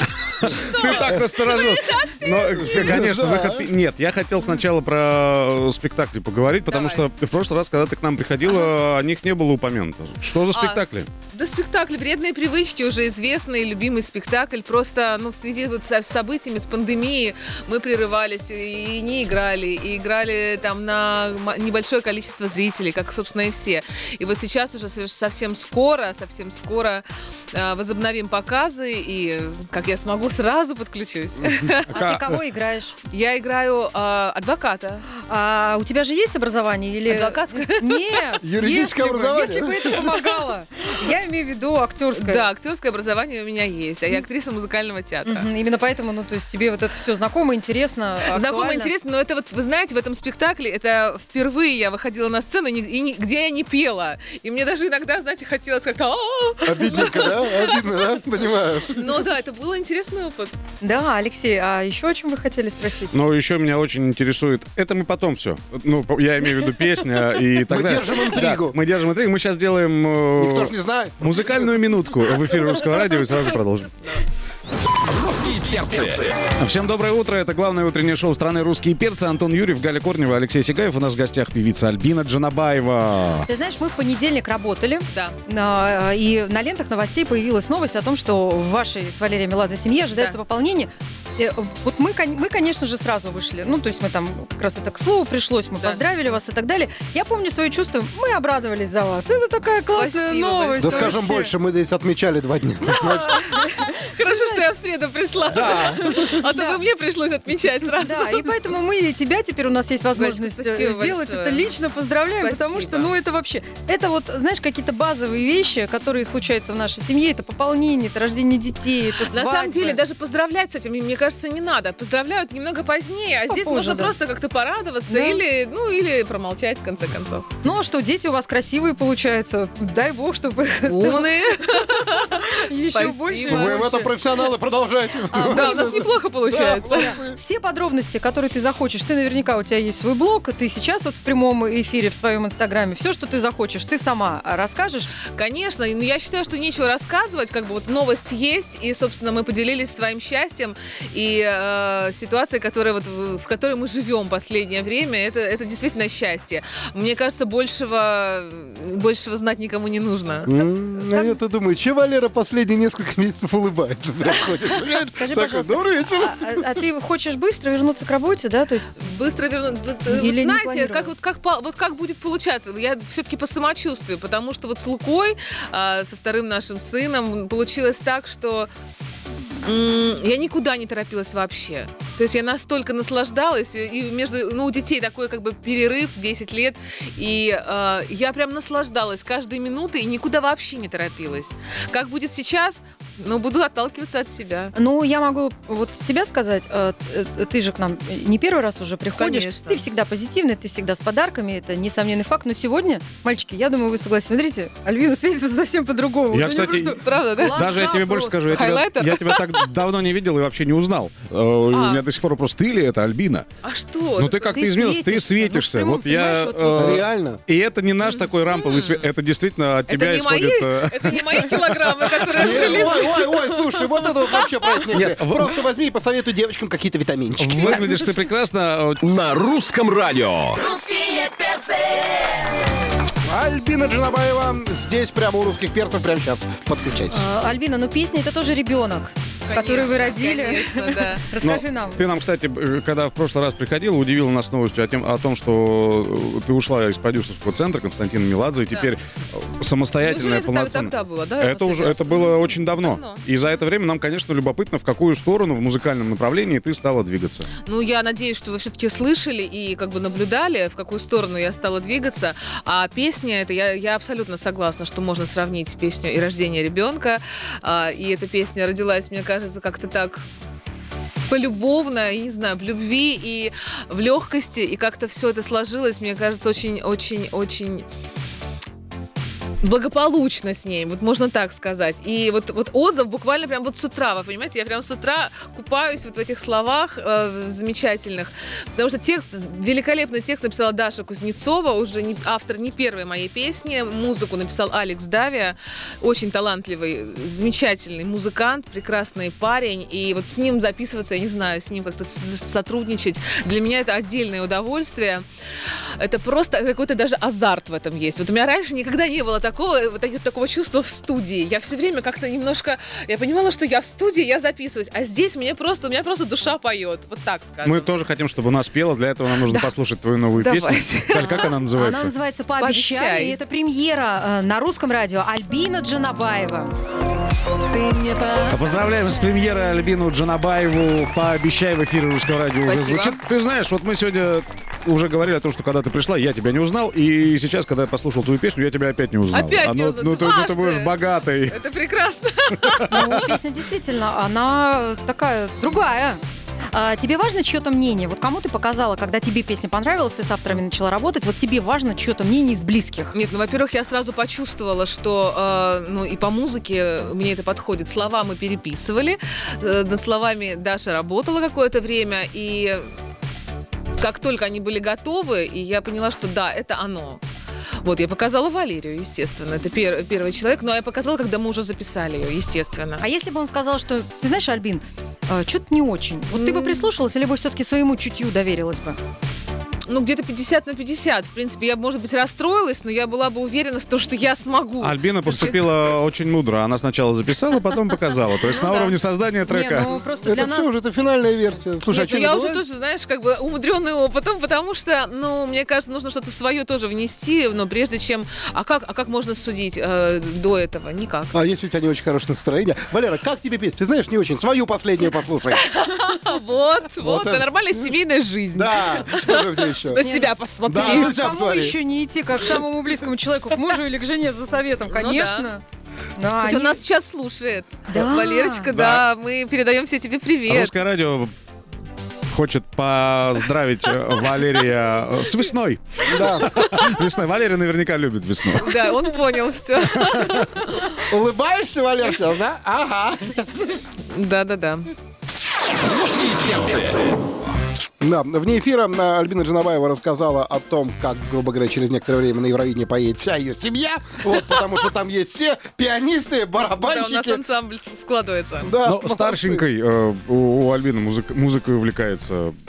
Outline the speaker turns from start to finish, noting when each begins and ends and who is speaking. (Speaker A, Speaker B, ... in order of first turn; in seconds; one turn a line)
Speaker A: 0.4-11.1
Speaker B: 0.4-2.9
Speaker C: 2.6-3.7
Speaker B: 6.7-7.0
Speaker B: 8.4-8.7
Speaker B: 10.5-31.9
Speaker A: 31.9-32.3
Speaker D: 31.9-32.9
Speaker B: 33.1-35.1
Speaker D: 35.3-42.5
Speaker B: 37.1-38.4
Speaker C: 38.4-40.1
Speaker B: 42.1-45.5
Speaker D: 45.2-48.9
Speaker B: 48.2-58.2
Speaker C: 56.6-59.0
Speaker B: 58.9-60.5
Speaker D: 60.8-63.2
Speaker A: 63.1-73.9
Speaker C: 67.7-68.8
Speaker C: 70.4-71.7
Speaker E: 75.1-76.3
Speaker A: 76.6-83.5
Speaker D: 83.4-101.5
Speaker B: 85.1-85.3
Speaker B: 90.1-90.4
Speaker B: 99.8-101.2
Speaker C: 100.8-103.3
Speaker D: 102.8-104.7
Speaker B: 103.3-108.5
Speaker C: 105.5-106.4
Speaker D: 105.5-106.8
Speaker D: 107.9-120.0
Speaker B: 110.1-111.7
Speaker B: 112.3-113.1
Speaker B: 119.3-127.5
Speaker D: 123.5-124.2
Speaker D: 125.1-125.4
Speaker D: 127.6-134.0
Speaker B: 130.8-134.1
Speaker C: 133.5-137.4
Speaker D: 135.3-136.0
Speaker B: 135.4-137.2
Speaker D: 136.9-145.1
Speaker B: 145.3-160.5
Speaker C: 160.5-166.8
Speaker D: 164.9-169.1
Speaker B: 169.0-178.7
Speaker D: 170.1-171.1
Speaker B: 179.6-194.7
Speaker D: 194.7-208.5
Speaker B: 199.1-199.8
Speaker A: 206.3-207.0
Speaker B: 206.4-207.6
Speaker A: 207.5-213.5
Speaker B: 208.4-209.7
Speaker B: 211.7-212.0
Speaker B: 213.6-214.6
Speaker A: 214.2-222.9
Speaker D: 214.5-216.9
Speaker C: 216.8-217.4
Speaker B: 218.0-219.1
Speaker B: 219.9-224.3
Speaker C: 222.3-227.8
Speaker A: 224.9-225.6
Speaker A: 227.3-229.1
Speaker D: 227.7-228.1
Speaker E: 229.0-231.2
Speaker C: 233.2-237.3
Speaker D: 237.1-242.0
Speaker B: 239.5-241.3
Speaker A: 241.4-257.5
Speaker B: 250.0-253.2
Speaker B: 257.6-270.2
Speaker B: 271.3-277.8
Speaker B: 279.6-305.2
Speaker B: 306.0-317.9
Speaker A: 317.6-322.1
Speaker B: 319.4-319.7
Speaker B: 320.4-321.4
Speaker D: 321.2-326.7
Speaker B: 322.6-323.4
Speaker B: 327.8-328.4
Speaker A: 328.5-341.6
Speaker B: 332.6-333.2
Speaker B: 339.3-343.0
Speaker A: 342.6-343.3
Speaker D: 342.9-346.2
Speaker D: 346.7-353.1
Speaker B: 353.1-362.9
Speaker B: 364.0-367.2
Speaker B: 367.8-373.1
Speaker D: 373.0-379.0
Speaker B: 376.3-376.9
Speaker B: 379.9-385.7
Speaker A: 384.8-389.9
Speaker B: 388.4-389.0
Speaker D: 389.4-390.8
Speaker C: 390.2-392.6
Speaker B: 391.9-401.3
Speaker C: 401.3-405.6
Speaker B: 405.5-411.1
Speaker C: 407.0-407.9
Speaker C: 408.5-410.0
Speaker D: 410.0-415.6
Speaker C: 410.6-411.8
Speaker B: 414.9-415.5
Speaker D: 416.2-416.8
Speaker B: 416.4-420.8
Speaker D: 417.9-418.7
Speaker A: 418.7-419.1
Speaker A: 420.5-421.3
Speaker A: 422.3-428.9
Speaker C: 426.1-426.5
Speaker B: 428.6-430.8
Speaker C: 430.9-433.8
Speaker B: 434.1-434.9
Speaker E: 436.5-436.9
Speaker C: 438.0-447.4
Speaker B: 446.8-448.7
Speaker C: 448.6-449.6
Speaker A: 448.8-452.5